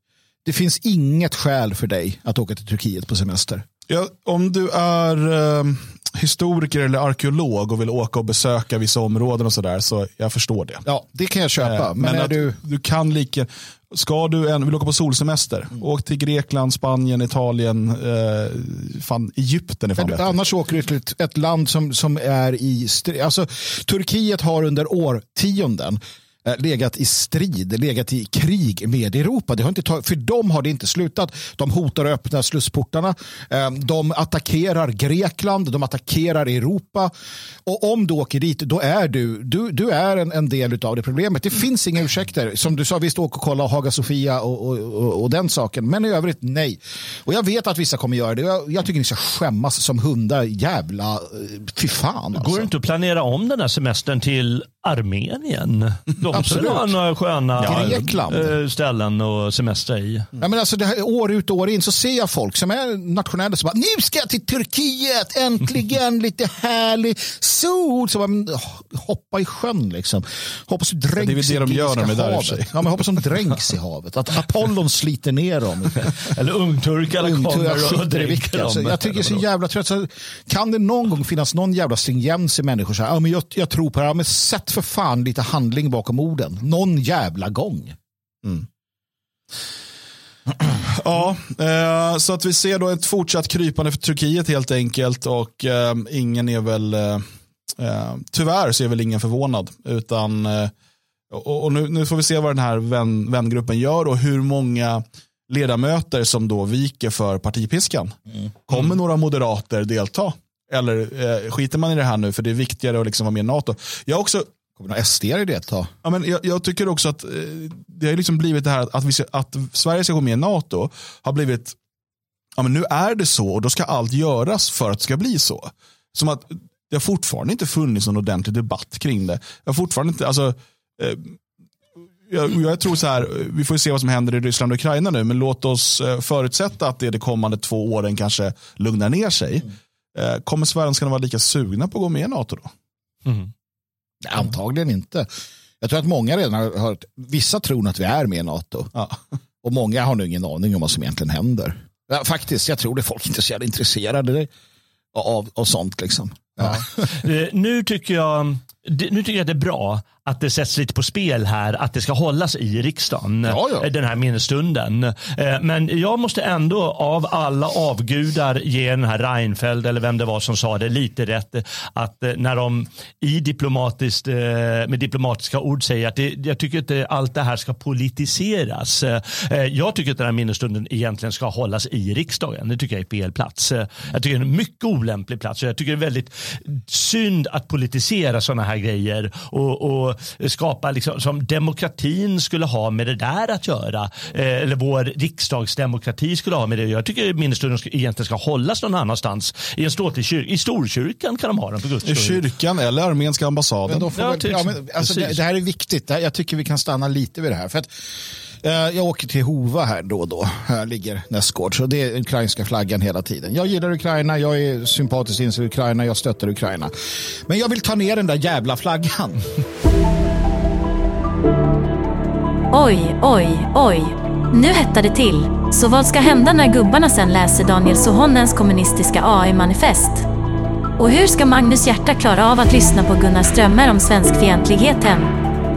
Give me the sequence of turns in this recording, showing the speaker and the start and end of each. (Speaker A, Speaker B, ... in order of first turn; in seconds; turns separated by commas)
Speaker A: 0.4-3.6, Speaker B: 3.9-10.8, Speaker A: 10.8-12.6, Speaker B: 11.6-20.3, Speaker A: 20.0-37.1, Speaker A: 37.6-52.7, Speaker C: 52.3-60.3, Speaker A: 56.3-56.9, Speaker A: 57.6-58.5, Speaker B: 57.6-58.0, Speaker A: 60.4-76.0, Speaker B: 71.2-73.2, Speaker C: 76.0-79.4, Speaker A: 77.2-87.9, Speaker B: 90.7-100.7, Speaker B: 101.3-114.5, Speaker A: 114.8-115.9, Speaker B: 116.0-121.8, Speaker B: 122.6-131.4, Speaker B: 132.3-142.7, Speaker A: 144.2-145.3, Speaker A: 145.8-148.9, Speaker A: 149.6-154.5, Speaker A: 155.1-157.0, Speaker C: 157.0-202.4, Speaker A: 163.4-163.9, Speaker B: 202.0-204.1, Speaker A: 203.9-207.9, Speaker C: 204.1-205.4, Speaker A: 208.6-219.5, Speaker D: 222.7-230.2, Speaker D: 231.0-235.3